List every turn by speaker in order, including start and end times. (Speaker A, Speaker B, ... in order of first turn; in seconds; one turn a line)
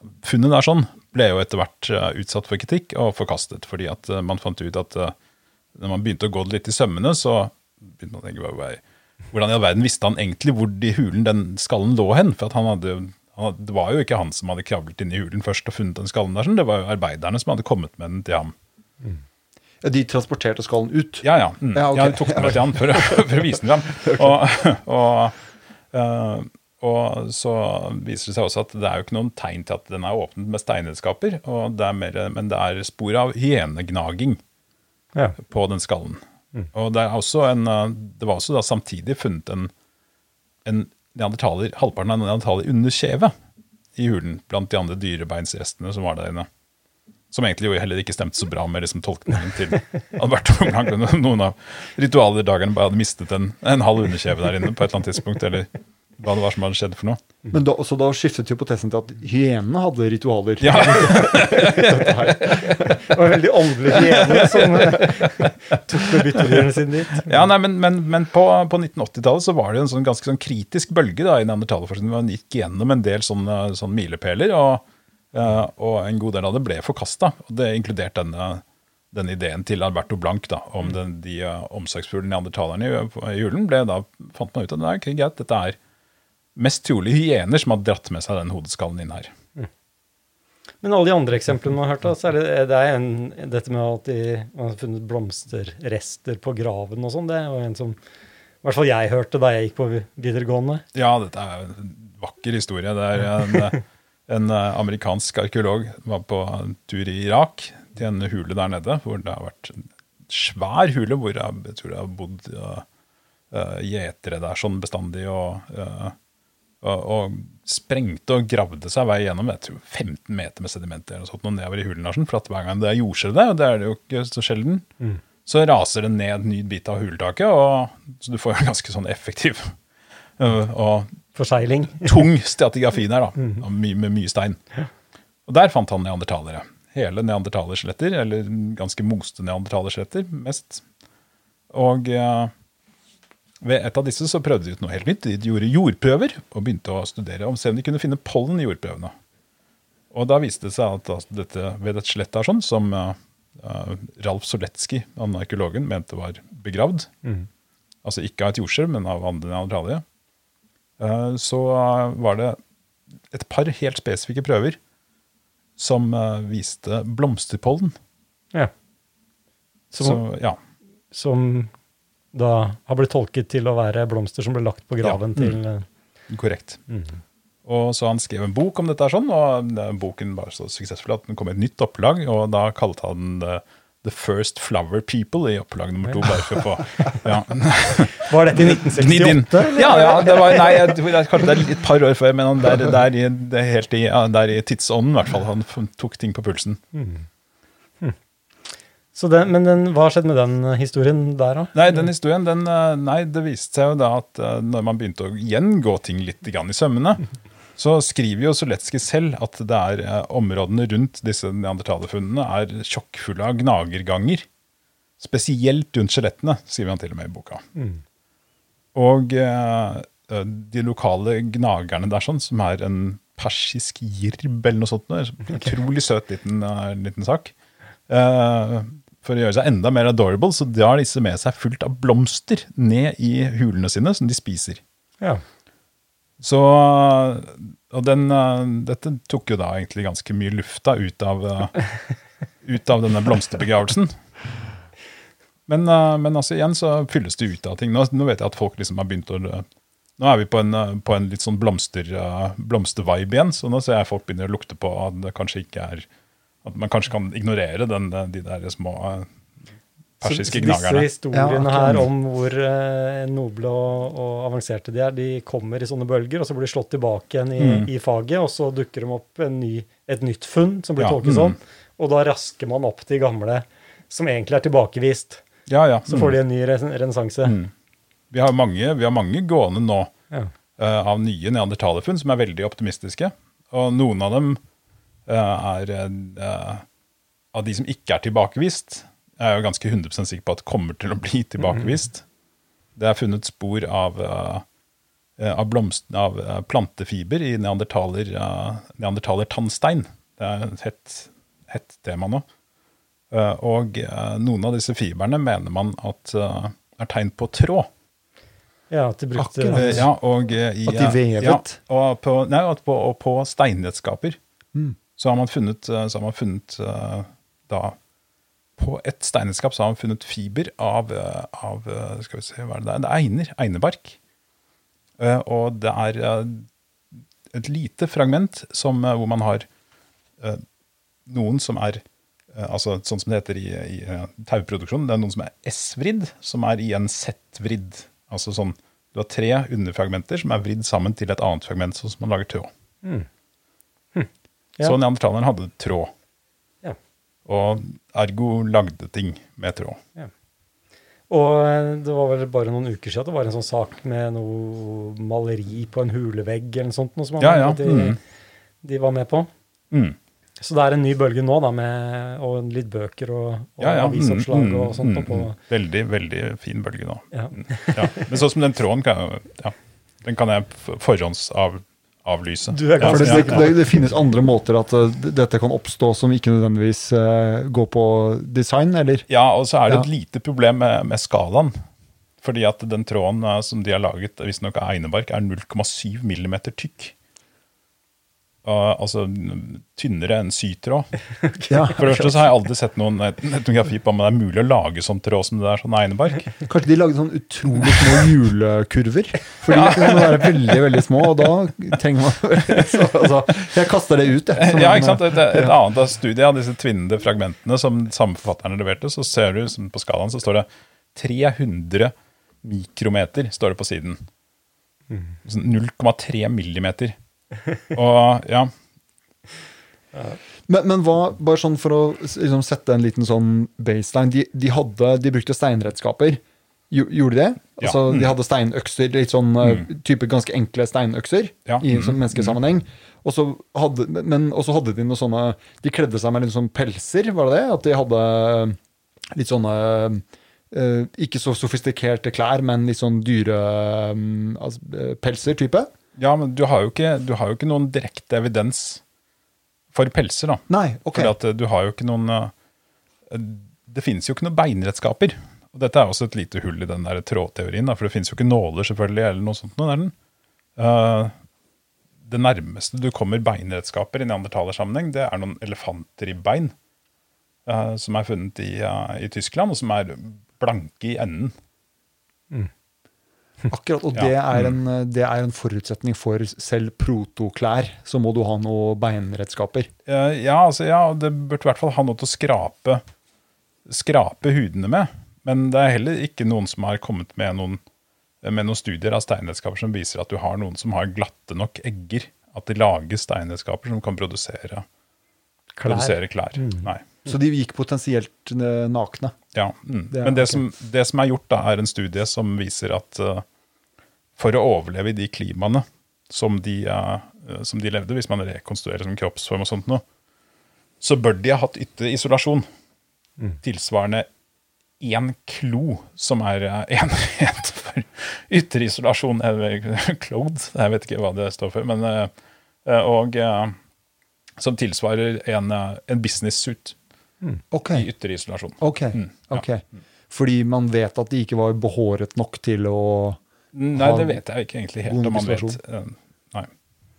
Speaker A: 0.2-5.1
Speaker A: 5.7-18.5
Speaker B: 19.8-24.4
Speaker A: 21.2-25.4
Speaker A: 25.9-34.4
Speaker A: 35.4-36.2
Speaker A: 36.7-39.7
Speaker A: 40.6-43.3
Speaker A: 44.0-46.5
Speaker A: 47.3-57.2
Speaker B: 57.5-63.0
Speaker A: 60.6-62.8
Speaker C: 61.7-62.0
Speaker C: 62.8-67.5
Speaker A: 64.0-66.7
Speaker A: 67.2-85.8
Speaker A: 86.5-89.3
Speaker C: 90.8-98.0
Speaker C: 98.6-100.8
Speaker A: 100.9-112.8
Speaker A: 113.5-116.2
Speaker A: 116.8-124.9
Speaker A: 125.4-129.7
Speaker A: 130.4-131.2
Speaker C: 131.3-132.3
Speaker A: 132.0-134.6
Speaker A: 135.5-140.8
Speaker A: 141.7-142.5
Speaker A: 143.6-149.1
Speaker A: 150.1-157.1
Speaker A: 158.0-160.0
Speaker A: 161.0-162.6
Speaker A: 163.3-164.8
Speaker A: 165.8-167.9
Speaker C: 169.9-170.2
Speaker A: 170.0-170.6
Speaker C: 171.1-171.7
Speaker C: 172.3-175.9
Speaker A: 175.0-175.6
Speaker A: 176.3-176.8
Speaker C: 176.9-177.2
Speaker A: 177.6-196.8
Speaker C: 186.0-187.2
Speaker C: 188.2-191.0
Speaker C: 196.9-197.2
Speaker C: 199.1-201.7
Speaker A: 201.7-207.2
Speaker A: 207.8-214.4
Speaker A: 215.2-217.6
Speaker C: 217.8-218.0
Speaker A: 218.9-227.5
Speaker A: 228.1-234.8
Speaker A: 236.4-241.9
Speaker A: 242.6-244.2
Speaker A: 245.7-249.6
Speaker A: 250.2-256.1
Speaker A: 256.6-259.3
Speaker A: 260.2-261.1
Speaker C: 260.2-275.4
Speaker B: 261.3-262.0
Speaker A: 267.6-267.9
Speaker A: 271.0-271.6
Speaker A: 275.7-276.4
Speaker C: 276.1-277.6
Speaker A: 277.4-277.7
Speaker A: 278.3-280.1
Speaker A: 280.8-284.6
Speaker A: 285.2-286.8
Speaker A: 287.5-292.2
Speaker A: 292.9-294.6
Speaker A: 295.4-302.4
Speaker A: 303.3-307.9
Speaker C: 308.9-310.1
Speaker B: 309.4-310.1
Speaker A: 309.7-314.4
Speaker B: 310.8-311.8
Speaker A: 315.2-317.9
Speaker A: 318.8-324.2
Speaker A: 325.2-326.7
Speaker A: 327.5-329.7
Speaker A: 331.2-332.0
Speaker A: 332.5-342.7
Speaker C: 344.1-344.9
Speaker A: 344.8-346.1
Speaker A: 347.4-350.0
Speaker C: 351.3-358.2
Speaker A: 357.4-358.2
Speaker C: 358.8-359.5
Speaker A: 359.9-360.2
Speaker C: 360.6-365.6
Speaker A: 363.8-373.7
Speaker C: 367.3-368.3
Speaker C: 372.7-373.8
Speaker B: 373.0-379.2
Speaker A: 379.3-381.7
Speaker A: 382.4-387.1
Speaker A: 388.6-391.1
Speaker C: 391.4-391.8
Speaker B: 391.7-392.4
Speaker A: 391.9-396.6
Speaker B: 396.6-405.8
Speaker A: 399.7-400.8
Speaker A: 404.6-414.2
Speaker C: 415.1-415.4
Speaker A: 415.4-417.1
Speaker A: 417.9-418.7
Speaker B: 420.7-438.8
Speaker A: 427.8-428.4
Speaker A: 431.6-432.5
Speaker B: 439.3-445.9
Speaker A: 446.1-449.0
Speaker A: 449.9-452.5
Speaker B: 450.7-451.3
Speaker A: 453.3-460.1
Speaker A: 460.8-461.3
Speaker A: 462.2-466.7
Speaker A: 467.6-471.5
Speaker B: 473.7-479.9
Speaker A: 474.1-474.7
Speaker A: 480.1-483.0
Speaker A: 483.9-487.8
Speaker A: 488.4-494.9
Speaker C: 495.8-496.9
Speaker A: 495.9-497.0
Speaker B: 497.2-499.3
Speaker A: 499.5-503.4
Speaker B: 500.1-500.6
Speaker A: 504.4-510.0
Speaker A: 511.0-512.6
Speaker A: 513.6-514.3
Speaker A: 515.0-522.3
Speaker A: 522.8-523.8
Speaker A: 524.6-527.0
Speaker B: 527.7-528.1
Speaker A: 527.9-529.6
Speaker B: 528.8-533.4
Speaker A: 533.7-536.7
Speaker B: 533.9-534.4
Speaker B: 535.0-535.8